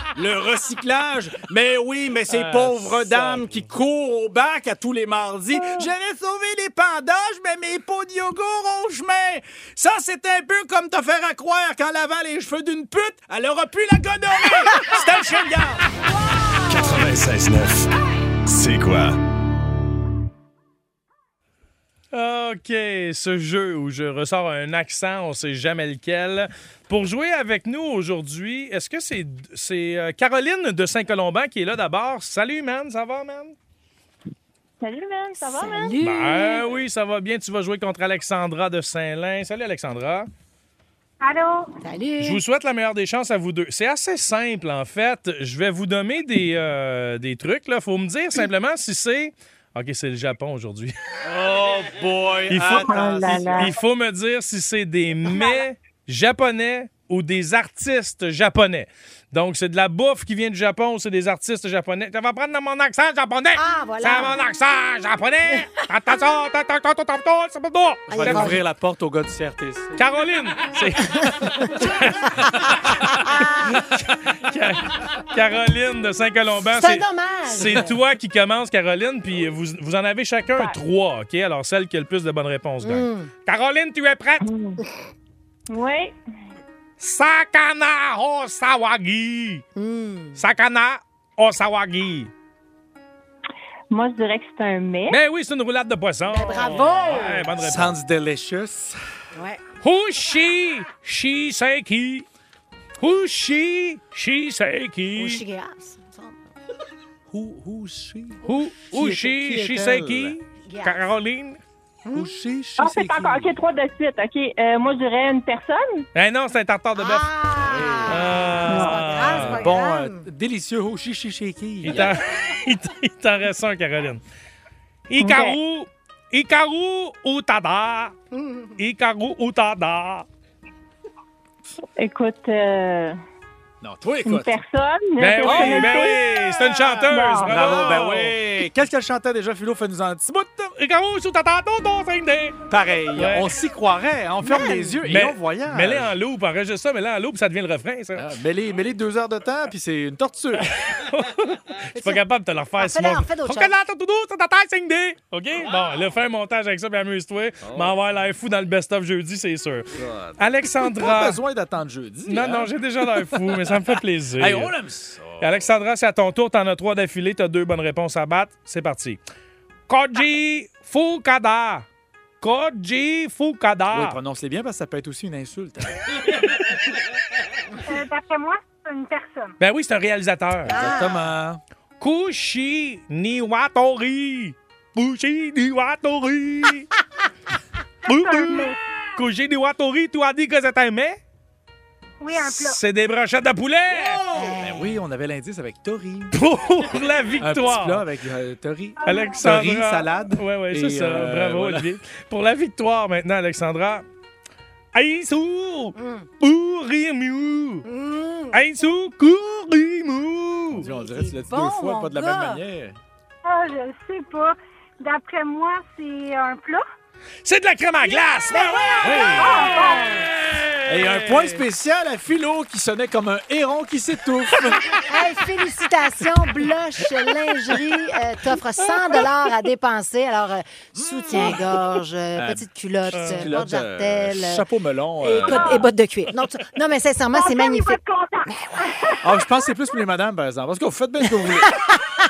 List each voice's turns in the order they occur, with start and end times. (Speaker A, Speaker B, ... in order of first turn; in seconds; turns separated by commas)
Speaker A: 0.1-15.8, Speaker B: 2.3-3.6, Speaker C: 16.7-17.9, Speaker C: 18.5-19.2, Speaker B: 22.1-33.5, Speaker D: 34.8-36.0, Speaker E: 35.4-36.6, Speaker B: 36.0-40.3, Speaker D: 41.2-41.7, Speaker E: 41.8-42.4, Speaker B: 42.2-50.9, Speaker A: 51.2-53.7, Speaker B: 52.5-68.5, Speaker D: 52.8-53.7, Speaker E: 63.6-64.4, Speaker E: 65.5-65.9, Speaker E: 68.1-68.6, Speaker A: 68.1-70.0, Speaker B: 70.0-84.5, Speaker E: 71.8-73.8, Speaker E: 76.7-77.9, Speaker E: 82.8-83.3, Speaker D: 84.4-84.8, Speaker D: 85.7-86.2, Speaker B: 87.0-89.6, Speaker E: 89.8-90.4, Speaker B: 90.4-92.3, Speaker D: 93.9-95.2, Speaker B: 95.1-98.0, Speaker E: 96.3-97.5, Speaker A: 97.6-99.0, Speaker E: 99.3-99.6, Speaker B: 99.8-102.3, Speaker B: 103.0-105.4, Speaker E: 105.2-106.5, Speaker A: 107.3-110.3, Speaker B: 108.4-111.6, Speaker E: 110.7-111.0, Speaker A: 112.1-113.5, Speaker D: 112.8-116.1, Speaker B: 116.2-117.3, Speaker E: 117.0-120.3, Speaker A: 117.6-118.5, Speaker B: 118.1-119.7, Speaker D: 118.7-119.0, Speaker A: 119.3-122.1, Speaker B: 121.9-124.2, Speaker B: 125.1-128.2, Speaker D: 125.2-125.5, Speaker E: 128.3-128.8, Speaker B: 128.8-130.3, Speaker D: 132.0-133.2, Speaker A: 133.8-134.5, Speaker D: 134.2-137.8, Speaker B: 135.2-138.4, Speaker A: 135.4-136.0, Speaker A: 137.4-140.7, Speaker B: 140.8-142.6, Speaker A: 142.7-146.1, Speaker B: 143.2-143.5, Speaker E: 144.4-145.0, Speaker B: 145.1-148.3, Speaker A: 148.2-150.7, Speaker B: 150.6-161.4, Speaker E: 151.9-152.2, Speaker E: 152.8-153.7, Speaker A: 157.6-158.0, Speaker A: 159.9-163.8, Speaker B: 162.2-164.8, Speaker A: 164.4-165.6, Speaker B: 165.4-169.2, Speaker B: 169.9-171.9, Speaker B: 172.4-174.2, Speaker A: 173.9-176.3, Speaker D: 177.9-179.6, Speaker B: 179.6-180.8, Speaker E: 180.7-181.2, Speaker A: 180.7-181.6, Speaker B: 182.0-186.9, Speaker D: 188.1-188.8, Speaker B: 188.1-191.2, Speaker D: 192.2-192.8, Speaker B: 192.3-194.2, Speaker A: 193.9-196.4, Speaker E: 194.3-195.0, Speaker B: 196.3-198.0, Speaker A: 197.4-201.9, Speaker D: 199.0-199.4, Speaker B: 199.1-204.1, Speaker B: 204.9-207.9, Speaker E: 206.0-206.3, Speaker E: 207.8-208.6, Speaker B: 208.5-210.9, Speaker A: 210.7-213.0, Speaker E: 210.8-212.6, Speaker D: 213.4-216.8, Speaker B: 217.4-221.6, Speaker E: 218.5-219.8, Speaker A: 219.0-219.6, Speaker D: 219.4-220.3, Speaker A: 220.9-224.8, Speaker E: 225.1-234.7, Speaker A: 231.0-231.7, Speaker A: 232.4-235.8, Speaker B: 233.1-233.6, Speaker E: 235.2-238.8, Speaker D: 235.4-235.9, Speaker D: 237.3-239.6, Speaker A: 239.2-241.7, Speaker E: 241.7-242.0